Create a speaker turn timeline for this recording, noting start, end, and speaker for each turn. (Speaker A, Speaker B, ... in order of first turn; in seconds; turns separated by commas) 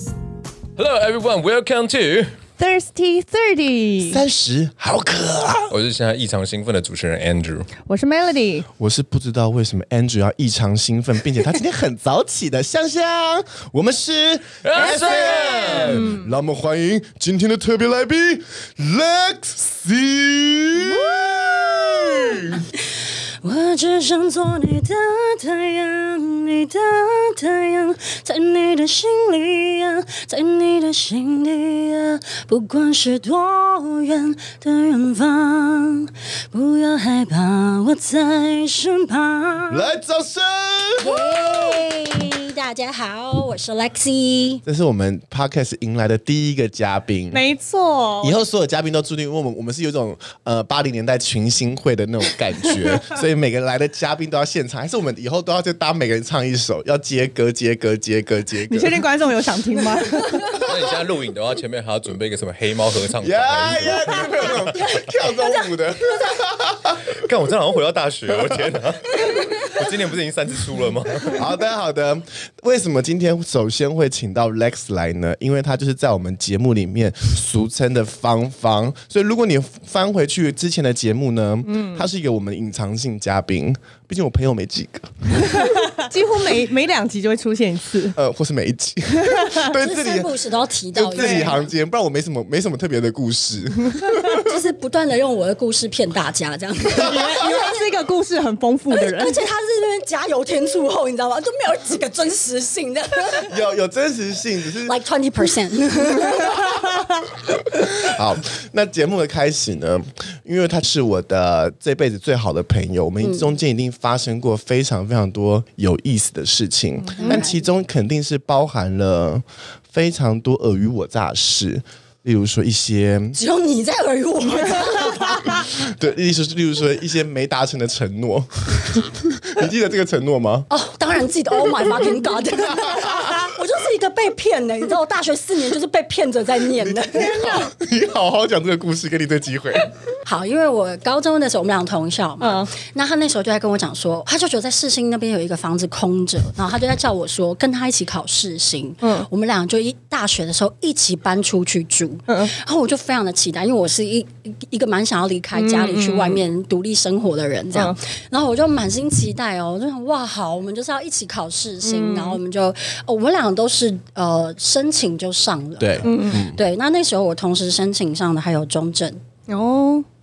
Speaker A: 0.8-2.3, Speaker B: 2.6-4.2, Speaker C: 4.0-5.7, Speaker A: 5.7-7.7, Speaker B: 7.8-8.7, Speaker C: 8.8-22.6, Speaker A: 14.6-16.1, Speaker D: 15.1-15.8, Speaker B: 15.9-16.3, Speaker D: 20.8-39.9, Speaker C: 39.7-41.8, Speaker D: 41.0-44.6, Speaker C: 44.6-47.4, Speaker B: 47.3-48.4, Speaker C: 48.2-59.0, Speaker B: 58.7-60.6, Speaker D: 60.2-60.6, Speaker A: 60.5-64.7, Speaker C: 63.2-67.1, Speaker D: 64.1-66.4, Speaker A: 67.1-71.4, Speaker C: 68.3-68.6, Speaker D: 69.2-69.7, Speaker C: 71.3-85.7, Speaker B: 81.7-82.0, Speaker B: 85.4-88.2, Speaker C: 88.1-90.3, Speaker B: 89.1-89.7, Speaker D: 89.7-91.7, Speaker C: 90.9-94.5, Speaker B: 91.2-91.5, Speaker D: 94.2-97.8, Speaker B: 97.0-99.4, Speaker D: 98.9-103.5, Speaker C: 103.4-104.9, Speaker D: 104.8-106.9, Speaker C: 107.8-123.4, Speaker D: 113.2-113.5, Speaker B: 117.0-117.3, Speaker D: 117.2-117.6, Speaker D: 123.3-125.6, Speaker C: 125.5-130.7, Speaker D: 130.7-137.7, Speaker C: 132.5-133.5, Speaker C: 136.8-139.9, Speaker D: 140.2-169.2, Speaker B: 142.4-142.7, Speaker B: 149.0-149.3, Speaker B: 155.5-156.4, Speaker B: 161.8-162.4, Speaker C: 165.8-166.6, Speaker B: 166.0-166.4, Speaker B: 169.5-170.1